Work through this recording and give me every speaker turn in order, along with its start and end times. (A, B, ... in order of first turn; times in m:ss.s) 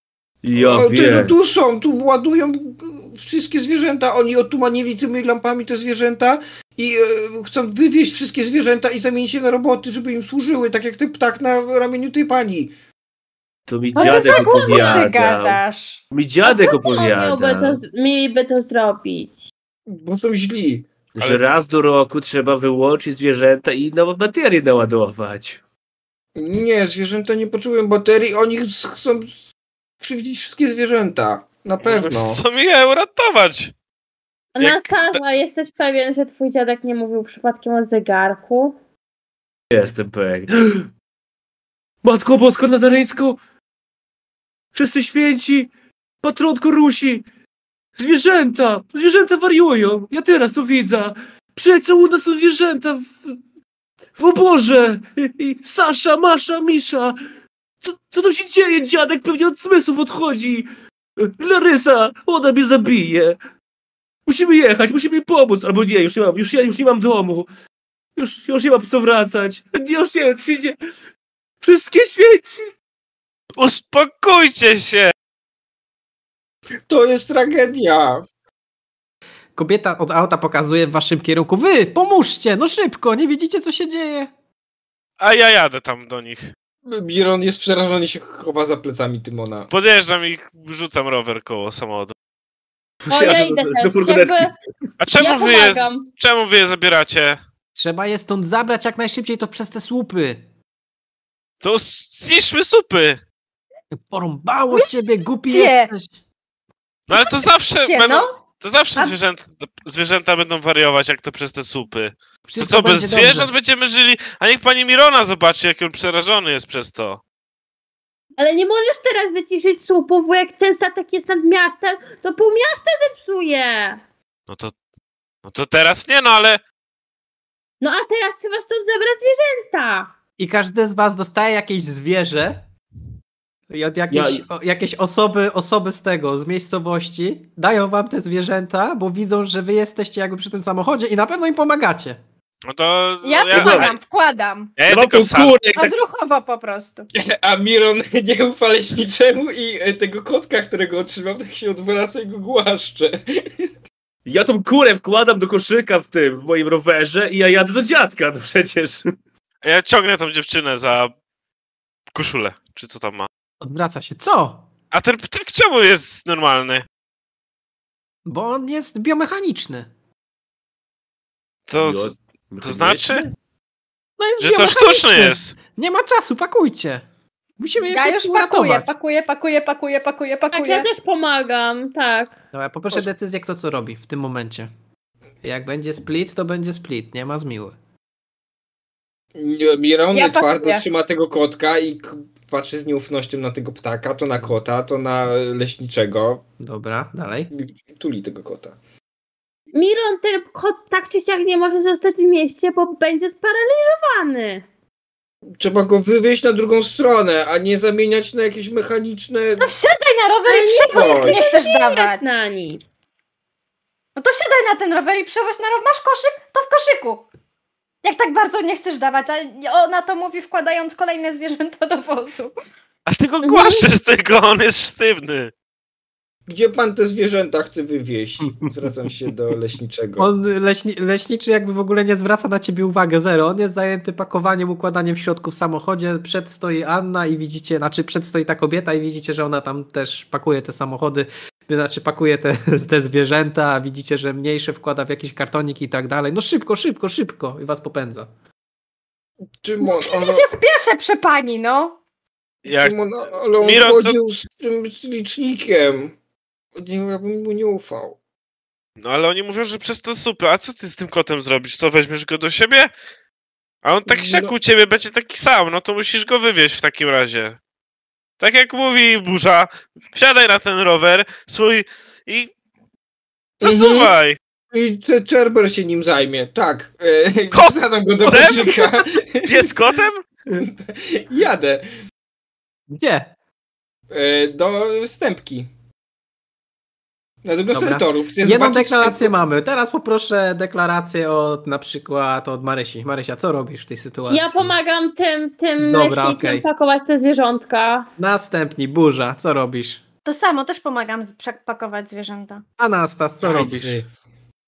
0:00.4-0:01.3 A
0:00.6-0:12.7 B
0:13.7-0:15.6 A
0:13.9-0:16.0 C
0:16.1-0:17.8 A
0:16.4-0:19.5 D
0:19.9-0:20.9 B
0:21.1-0:25.6 A
0:21.2-0:21.4 E
0:26.4-0:29.3 B
0:30.0-0:32.4 B
0:31.8-0:33.7 E
0:34.5-0:38.8 D
0:34.6-0:35.2 E
0:39.7-0:40.9 A
0:42.0-0:43.4 A
0:44.7-0:45.7 A
0:46.2-0:47.2 A
0:48.0-0:53.4 A
0:54.2-0:57.2 A
0:57.8-1:00.7 A
1:01.2-1:03.4 A
1:04.2-1:07.5 A
1:08.2-1:10.8 A
1:11.6-1:12.7 A
1:13.6-1:15.1 E
1:16.9-1:18.2 B
1:19.6-1:24.3 F
1:25.2-1:26.5 E
1:26.8-1:29.7 B
1:29.7-1:32.1 E
1:33.0-1:34.5 A
1:33.1-1:34.5 D
1:33.2-1:33.5 E
1:35.0-1:37.4 E
1:35.2-1:36.1 D
1:37.7-1:40.4 F
1:41.6-1:43.2 E
1:43.9-1:46.1 F
1:45.5-1:45.9 C
1:47.1-1:57.2 E
1:47.1-1:48.3 C
1:52.5-1:53.5 F
1:58.4-2:04.0 D
2:04.5-2:04.7 E
2:05.4-2:06.6 E
2:07.8-2:10.1 D
2:10.4-2:12.6 F
2:13.7-2:22.2 F
2:14.1-2:14.4 A
2:22.7-2:24.0 E
2:23.2-2:24.8 C
2:23.5-2:23.9 A
2:24.8-2:25.7 E
2:24.9-2:26.0 A
2:25.7-2:27.1 C
2:27.1-2:33.6 B
2:34.2-2:39.1 A
2:39.6-2:41.1 E
2:42.1-2:43.3 E
2:43.6-2:44.6 F
2:44.9-2:46.8 E
2:48.2-2:49.9 F
2:51.7-2:53.3 E
2:51.7-2:53.3 A
2:54.2-2:57.0 F
2:54.4-2:55.5 E
2:57.6-2:58.9 F
2:57.8-3:00.9 C
3:00.5-3:02.3 D
3:02.5-3:04.7 F
3:05.4-3:07.7 F
3:09.4-3:16.4 B
3:10.1-3:10.8 C
3:16.6-3:17.5 F
3:17.5-3:18.8 B
3:19.7-3:24.6 D
3:25.6-3:29.7 B
3:29.6-3:32.3 C
3:30.4-3:32.8 D
3:30.9-3:31.4 B
3:34.2-3:37.3 C
3:38.0-3:42.5 C
3:43.1-3:45.5 E
3:43.4-3:43.9 D
3:46.5-3:50.3 B
3:50.2-4:08.3 F
4:09.6-4:10.5 B
4:09.8-4:12.0 C
4:12.6-4:13.0 E
4:12.7-4:16.1 B
4:13.6-4:14.2 E
4:16.8-4:18.2 B
4:19.0-4:22.9 E
4:23.8-4:27.6 E
4:24.1-4:24.5 B
4:28.4-4:32.5 E
4:33.6-4:34.4 E
4:33.6-4:34.1 B
4:34.7-4:39.7 B
4:37.5-4:40.2 E
4:40.5-4:41.9 B
4:42.9-4:43.3 F
4:44.1-4:45.7 B
4:47.4-4:49.3 B
4:47.7-4:54.7 F
4:54.3-4:58.1 D
4:55.8-4:56.6 F
4:58.2-5:00.0 F
5:00.2-5:02.6 C
5:02.8-5:04.0 F
5:03.4-5:04.1 B